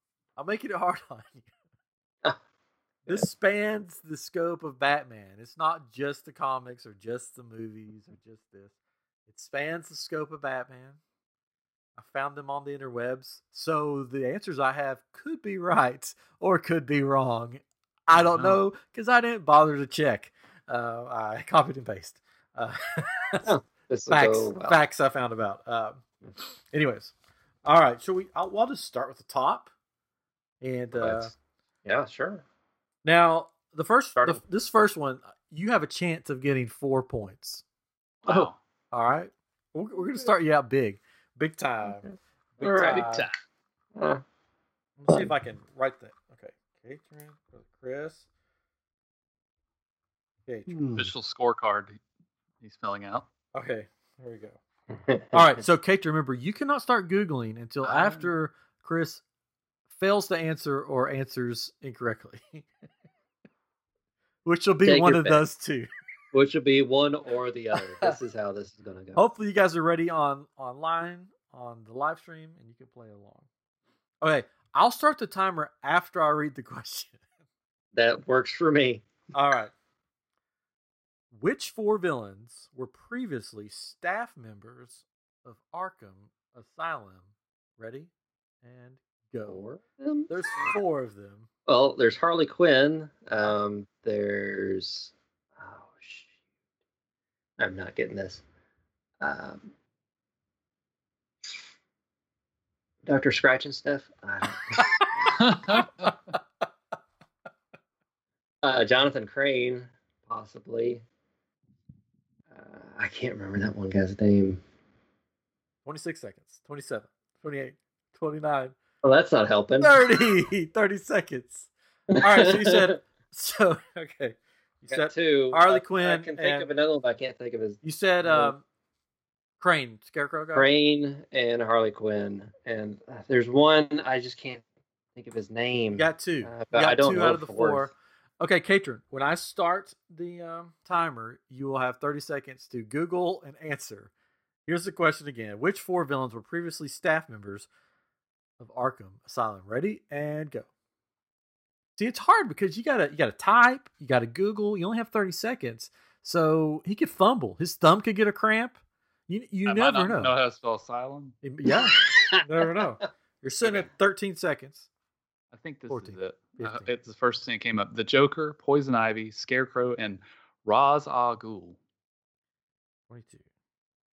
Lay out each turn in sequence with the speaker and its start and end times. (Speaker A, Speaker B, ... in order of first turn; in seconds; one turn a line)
Speaker A: 0.3-1.5
Speaker A: 3.1-8.7
Speaker A: 9.3-11.0
Speaker A: 12.0-23.5
Speaker B: 18.1-18.6
Speaker C: 23.4-24.8
Speaker A: 24.1-29.7
Speaker A: 30.6-31.3
Speaker C: 30.9-31.3
Speaker C: 31.8-32.4
Speaker A: 33.0-37.6
Speaker C: 34.1-34.4
Speaker B: 38.2-38.6
Speaker A: 38.9-42.0
Speaker C: 42.0-43.2
Speaker A: 42.6-43.3
Speaker B: 42.7-43.3
Speaker C: 44.0-44.2
Speaker A: 45.0-48.2
Speaker A: 50.5-50.8
Speaker C: 50.7-51.1
Speaker B: 51.0-52.0
Speaker B: 52.6-53.3
Speaker A: 53.5-54.6
Speaker C: 54.9-55.6
Speaker A: 55.3-59.2
Speaker B: 57.8-58.3
Speaker A: 59.9-62.7
Speaker A: 64.4-65.9
Speaker C: 64.8-65.4
Speaker C: 66.3-69.2
Speaker A: 67.8-68.2
Speaker A: 69.2-73.5
Speaker A: 74.2-77.2
Speaker C: 77.9-79.0
Speaker A: 79.3-79.7
Speaker A: 81.3-88.1
Speaker A: 88.6-89.6
Speaker C: 89.5-90.7
Speaker A: 90.3-91.5
Speaker C: 91.7-96.3
Speaker C: 97.6-98.4
Speaker C: 99.2-99.7
Speaker C: 103.0-105.4
Speaker B: 105.3-106.2
Speaker C: 108.6-111.0
Speaker C: 112.5-114.6
Speaker A: 115.8-118.8
Speaker C: 119.0-120.0
Speaker A: 119.8-126.7
Speaker C: 122.1-123.0
Speaker C: 124.9-128.5
Speaker A: 127.8-128.6
Speaker A: 129.6-130.7
Speaker C: 130.5-134.6
Speaker C: 135.1-137.9
Speaker A: 135.9-144.1
Speaker A: 144.7-147.7
Speaker A: 148.6-150.7
Speaker A: 152.0-160.3
Speaker B: 159.7-161.3
Speaker A: 161.4-164.9
Speaker C: 161.7-162.8
Speaker B: 163.6-163.9
Speaker B: 165.5-171.8
Speaker A: 165.9-166.9
Speaker A: 173.1-173.4